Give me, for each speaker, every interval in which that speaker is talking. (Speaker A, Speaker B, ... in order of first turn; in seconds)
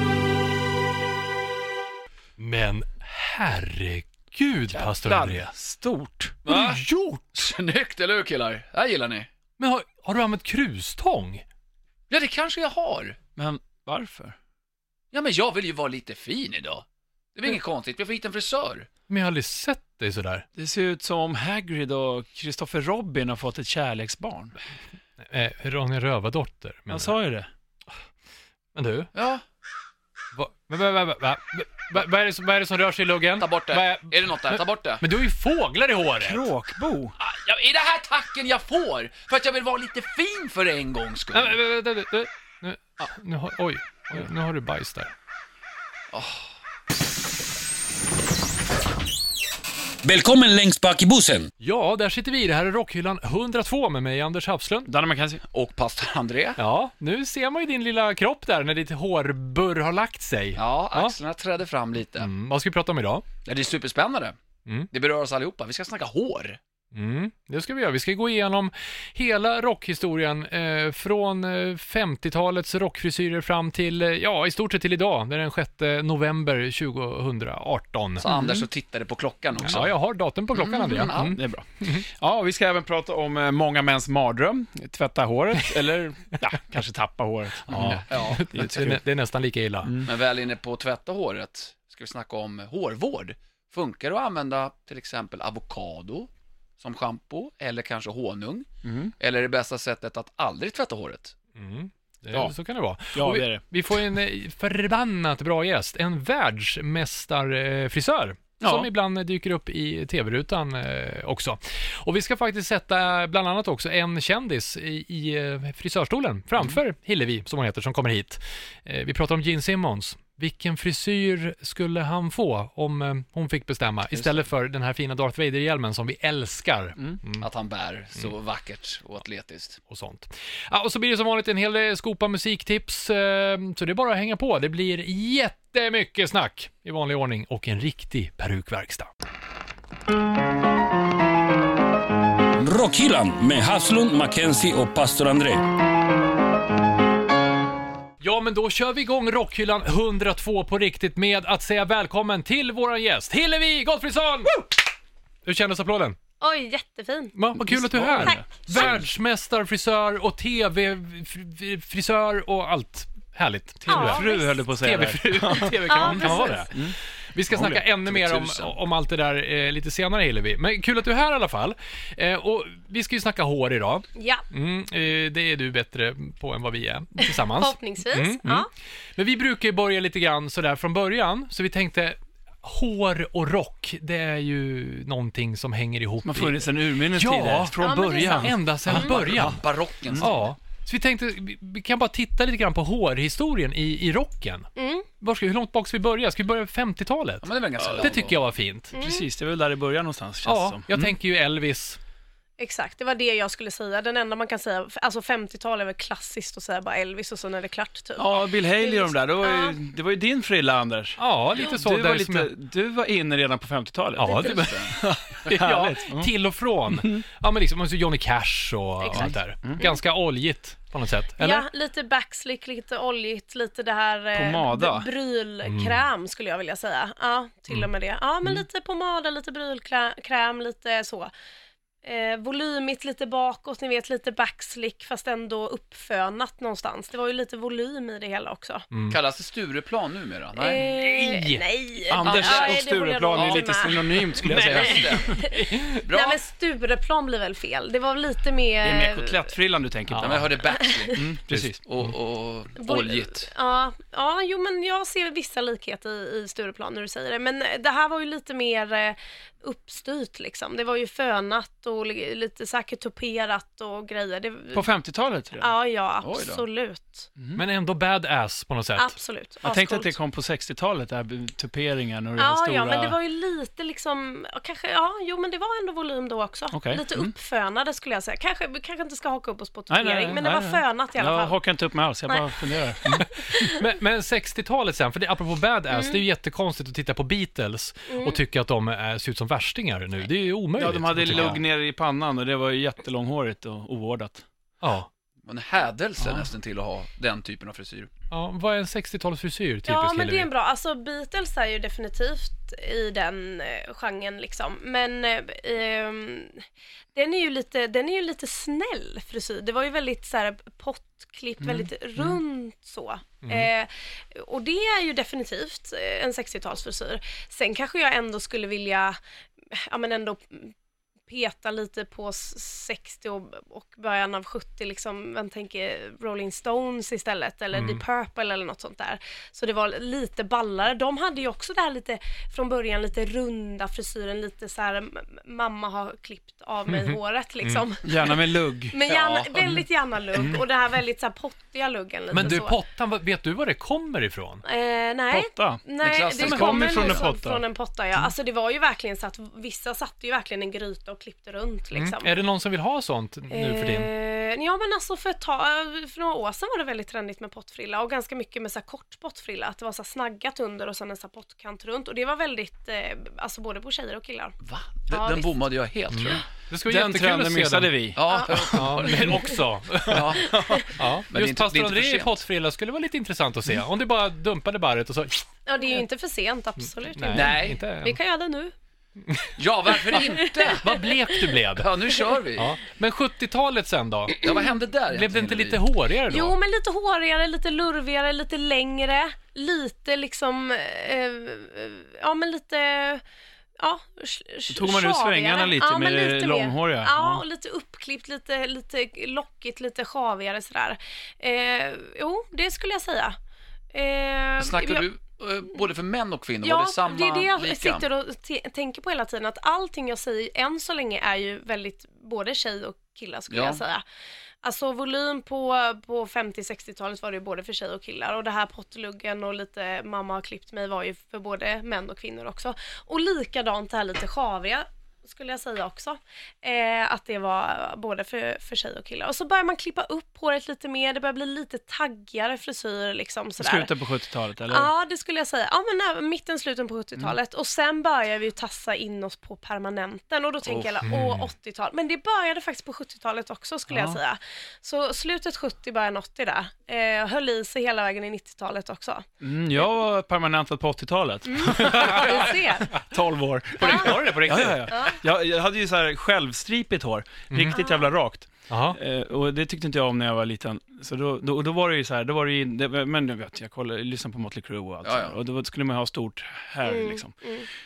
Speaker A: 2.4-5.5, 6.5-7.5, 9.6-11.4, 19.1-20.5, 25.2-27.1, 28.8-29.1, 30.3-36.5, 41.3-45.1, 51.6-54.9, 56.6-61.2, 62.2-63.2, 66.9-78.4, 79.6-81.2, 87.7-90.0, 101.6-127.5, 129.9-139.1, 148.2-154.7, 155.4-156.2, 157.4-189.6, 190.2-194.7, 195.2-199.0, 200.4-202.0, 211.2-212.5, 214.2-221.7, 225.6-226.1, 238.9-239.2, 240.9-241.7, 244.4-246.0, 250.1-250.5, 251.5-252.1, 267.6-269.2, 283.2-291.6, 294.8-295.1, 298.3-300.5, 327.7-328.0, 336.9-337.9, 342.3-344.6, 351.9-354.1, 366.1-370.4, 370.9-375.5, 377.1-378.2, 379.3-380.2, 380.8-381.9, 382.6-384.6, 385.1-386.6, 441.0-441.5, 451.8-452.5, 453.8-455.0, 457.5-457.8, 458.7-459.0
Speaker B: 4.7-6.4, 13.4-14.4, 20.6-24.6, 26.9-27.5, 36.2-37.1, 54.9-55.4, 81.1-89.0, 89.8-90.1, 98.8-99.1, 103.1-103.6, 108.6-108.9, 157.6-159.1, 163.9-167.0, 167.5-167.8, 186.2-188.6, 199.0-201.1, 208.2-216.3, 216.9-217.2, 219.1-219.8, 224.3-225.1, 242.1-245.2, 248.8-250.5, 251.1-251.8, 264.7-265.7, 267.4-267.6, 269.6-273.2, 276.7-277.3, 279.9-283.3, 290.8-294.4, 311.6-311.9, 338.0-339.0, 340.3-340.6, 345.3-347.6, 366.9-369.1, 370.1-370.8, 394.7-397.4, 433.6-434.9, 443.9-444.2, 449.4-467.3
Speaker C: 6.5-6.8, 7.3-9.3, 12.1-13.2, 15.1-18.9, 29.1-29.4, 33.4-35.0, 37.2-41.6, 46.1-46.5, 55.5-56.6, 60.5-62.3, 63.5-64.4, 64.9-66.6, 78.2-79.9, 80.5-81.4, 87.8-88.8, 90.0-101.3, 127.4-129.8, 168.0-168.8, 188.9-190.4, 197.4-198.4, 214.5-214.9, 239.1-240.9, 242.2-246.4, 250.2-253.5, 266.2-266.6, 295.4-298.1, 339.1-339.8, 346.0-347.3, 364.6-366.4, 368.1-369.5, 370.1-372.4, 377.3-377.8, 379.6-381.0, 381.8-382.8, 384.4-385.8, 404.6-408.1, 413.5-413.8, 440.6-441.0, 465.0-465.4
Speaker D: 50.0-51.5, 142.6-145.7
Speaker E: 156.4-157.4, 158.2-159.0, 163.9-164.6, 165.9-166.7, 174.2-174.4, 177.2-178.7, 187.8-188.6, 194.8-195.1, 198.9-199.3, 202.6-209.8, 214.2-214.7, 219.0-219.9, 221.4-231.3, 232.0-238.9, 240.6-244.3, 245.1-249.5, 250.8-251.1, 252.8-264.9, 265.6-267.3, 269.0-270.1, 272.4-281.6, 283.0-283.8, 285.9-286.2, 288.1-288.4, 299.9-319.2, 319.7-320.7, 321.3-338.4, 338.9-342.8, 344.6-352.4, 353.5-364.6, 365.1-365.5, 368.3-368.6, 369.1-369.6, 370.5-370.9, 375.7-378.7, 380.1-381.3, 386.3-393.2, 393.8-403.4, 403.9-405.1, 406.6-414.0, 414.6-433.9, 434.7-449.2, 451.5-452.9, 453.8-454.3, 454.9-455.2, 457.7-458.1, 466.8-467.7